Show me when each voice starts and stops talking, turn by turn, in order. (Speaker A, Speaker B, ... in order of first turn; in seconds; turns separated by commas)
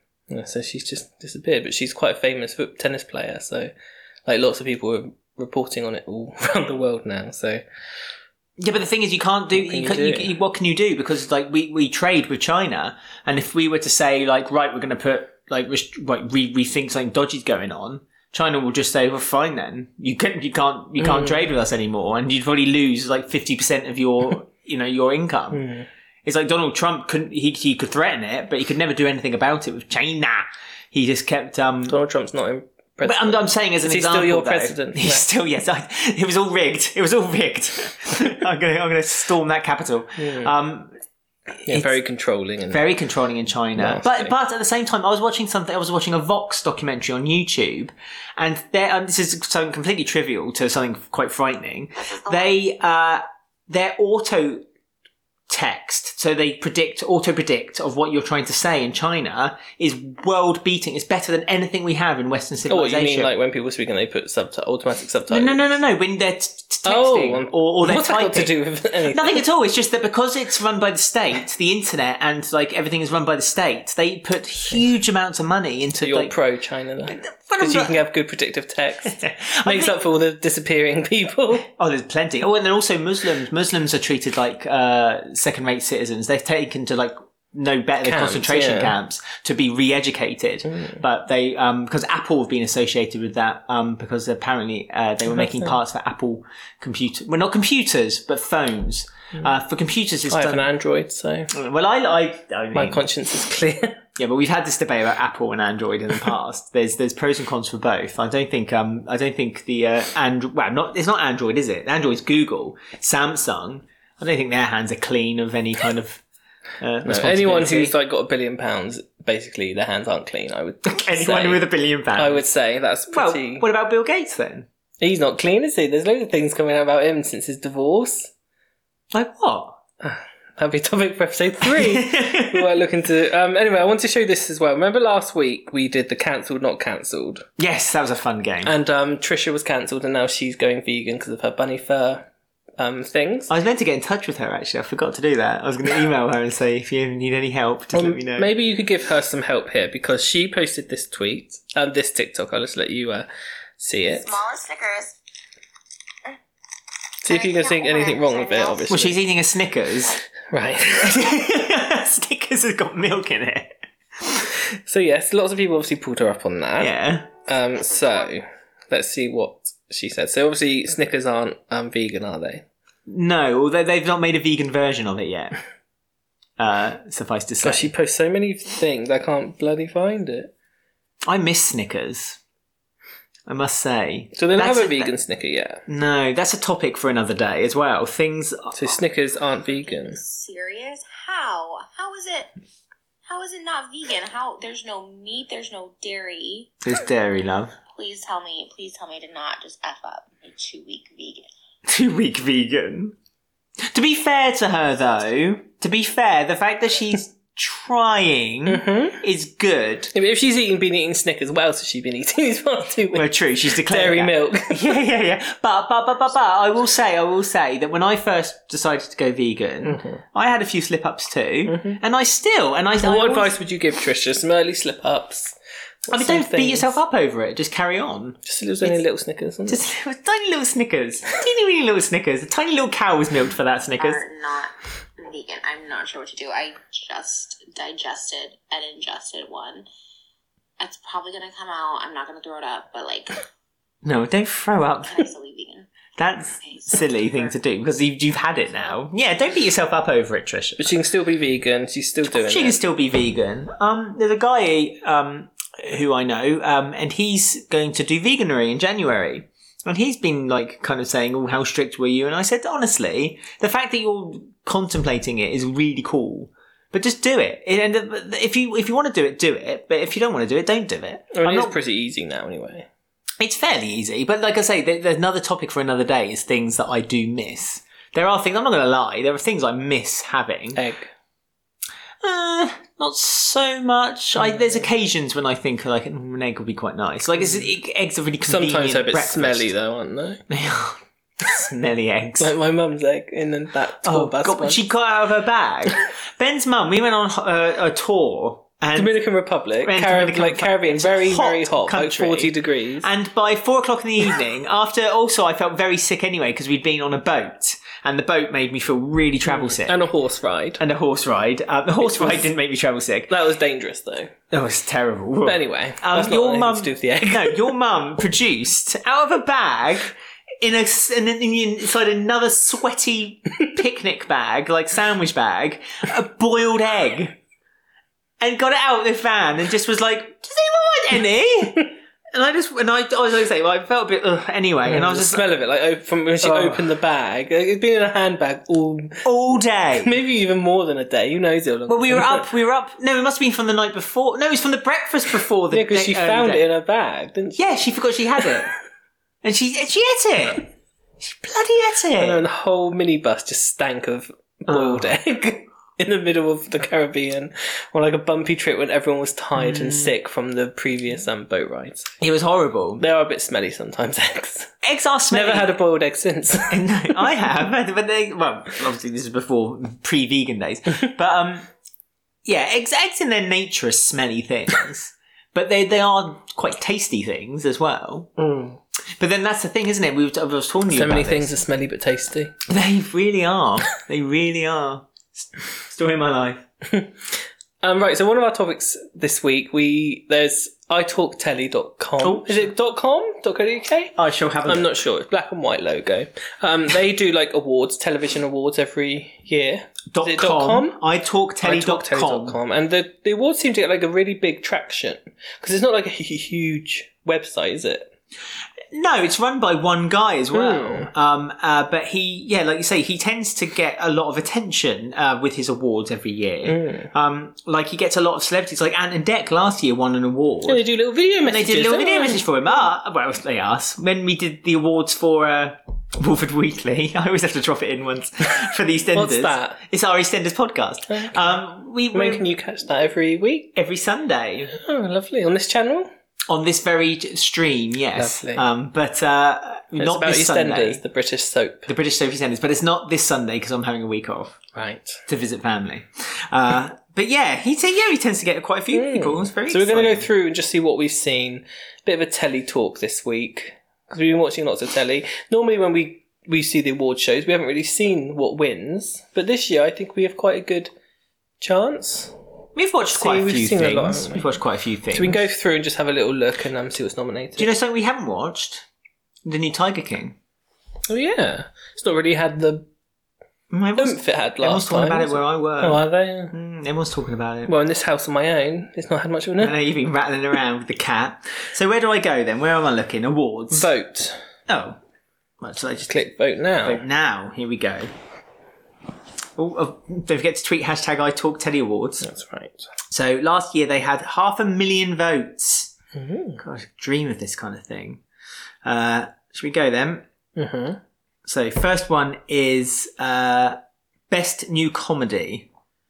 Speaker A: 0.3-3.7, Speaker A: 4.2-7.6, Speaker B: 8.6-25.6, Speaker A: 9.5-10.3, Speaker A: 21.0-21.4, Speaker A: 25.5-25.9, Speaker B: 26.2-32.0, Speaker A: 31.9-35.2, Speaker B: 33.0-40.9, Speaker A: 40.2-40.5, Speaker A: 41.6-42.9, Speaker B: 41.7-42.0, Speaker B: 42.7-54.6, Speaker A: 43.8-44.3, Speaker B: 55.5-63.3, Speaker A: 62.7-65.8, Speaker B: 65.3-68.5, Speaker A: 66.8-69.4, Speaker B: 69.1-76.3, Speaker A: 76.0-81.7, Speaker B: 77.1-78.0, Speaker B: 79.0-80.0, Speaker B: 81.6-100.7, Speaker A: 88.0-88.9, Speaker A: 90.7-91.0, Speaker A: 95.3-95.8, Speaker A: 100.3-101.5, Speaker B: 101.5-103.0, Speaker A: 102.7-104.0, Speaker B: 104.2-116.2, Speaker B: 116.8-118.0, Speaker A: 117.0-123.7, Speaker B: 120.9-122.5, Speaker B: 123.1-124.7, Speaker A: 125.0-128.3, Speaker B: 129.1-129.8, Speaker A: 130.0-137.4, Speaker B: 131.6-132.8, Speaker B: 137.6-138.7, Speaker A: 138.6-143.5, Speaker B: 143.5-148.5, Speaker A: 147.9-153.3, Speaker A: 153.8-154.4, Speaker C: 154.1-155.2, Speaker A: 157.2-159.2, Speaker C: 157.2-159.0, Speaker B: 158.9-160.2, Speaker A: 160.5-161.2, Speaker B: 160.9-164.5, Speaker A: 164.8-166.9, Speaker B: 166.8-167.3, Speaker A: 167.4-172.7, Speaker B: 173.1-175.6, Speaker B: 176.6-177.9, Speaker A: 177.6-180.5, Speaker B: 181.2-182.4, Speaker B: 183.5-185.1, Speaker A: 184.3-185.8, Speaker B: 185.9-188.7, Speaker A: 188.7-190.2, Speaker C: 189.7-192.5, Speaker C: 193.2-196.7, Speaker B: 196.8-197.7, Speaker C: 197.9-201.5, Speaker B: 201.8-203.1, Speaker B: 203.9-210.1, Speaker A: 208.7-209.2, Speaker A: 210.1-214.8, Speaker B: 213.1-223.5, Speaker A: 219.8-220.2, Speaker A: 221.7-222.0, Speaker A: 223.0-225.5, Speaker A: 226.1-227.0, Speaker B: 226.1-229.0, Speaker A: 228.4-229.8, Speaker B: 229.7-234.2, Speaker C: 234.0-239.9, Speaker C: 240.8-243.4, Speaker B: 244.0-245.3, Speaker C: 245.1-246.0, Speaker B: 246.2-250.9, Speaker C: 246.6-247.6, Speaker A: 250.8-252.8, Speaker B: 252.2-271.7, Speaker A: 271.3-272.9, Speaker B: 273.4-280.8, Speaker A: 280.7-281.1, Speaker B: 282.2-289.7, Speaker A: 288.4-290.4, Speaker B: 290.5-292.5, Speaker A: 292.4-294.8, Speaker B: 294.0-299.2, Speaker A: 298.9-303.1, Speaker B: 299.8-310.0, Speaker A: 309.5-310.8, Speaker B: 310.8-313.3, Speaker A: 312.0-312.5, Speaker A: 313.3-314.3, Speaker B: 314.5-327.4, Speaker A: 315.4-317.7, Speaker B: 328.4-335.4, Speaker A: 334.8-339.3, Speaker B: 336.4-336.9, Speaker B: 339.2-340.2, Speaker A: 340.0-342.4, Speaker B: 341.9-346.6, Speaker A: 345.7-347.6, Speaker B: 347.5-348.7, Speaker B: 349.4-350.7, Speaker B: 351.2-352.4, Speaker A: 352.2-362.1, Speaker B: 354.7-355.2, Speaker B: 359.6-360.2, Speaker B: 362.2-363.0, Speaker A: 363.0-364.7, Speaker B: 364.8-365.7, Speaker A: 365.3-367.2, Speaker B: 366.7-371.7, Speaker B: 372.4-378.3, Speaker A: 378.4-378.8, Speaker B: 379.2-381.5, Speaker A: 380.9-382.6, Speaker B: 382.7-386.6, Speaker A: 387.8-401.0, Speaker B: 392.2-392.7, Speaker B: 394.1-394.9, Speaker B: 400.1-402.6, Speaker A: 401.6-408.1, Speaker B: 408.9-420.8, Speaker A: 410.5-411.1, Speaker A: 416.6-417.1, Speaker A: 420.6-422.4, Speaker B: 421.4-432.5, Speaker A: 429.1-429.8, Speaker A: 431.1-431.5, Speaker A: 432.1-433.7, Speaker B: 433.7-434.7, Speaker A: 434.7-436.1, Speaker B: 436.5-441.0, Speaker A: 438.1-438.6, Speaker A: 439.9-441.9, Speaker B: 441.9-444.6, Speaker A: 444.7-445.2, Speaker B: 445.3-450.3, Speaker A: 448.9-460.9, Speaker A: 461.6-462.3, Speaker B: 462.8-465.4, Speaker A: 463.1-464.5, Speaker A: 465.1-467.7, Speaker B: 467.6-468.8, Speaker B: 469.4-470.4, Speaker A: 471.1-472.9, Speaker B: 473.7-477.7, Speaker A: 474.0-476.5, Speaker A: 477.7-479.8, Speaker B: 479.6-483.9, Speaker A: 483.7-484.4, Speaker B: 484.7-485.0, Speaker B: 485.6-486.1, Speaker A: 486.1-487.0, Speaker B: 486.8-488.1, Speaker B: 489.6-492.2, Speaker A: 492.2-492.9, Speaker B: 493.1-495.9, Speaker A: 496.1-496.6, Speaker B: 496.6-498.2, Speaker B: 498.8-500.2, Speaker A: 500.6-501.0, Speaker B: 501.4-503.8, Speaker B: 504.3-505.7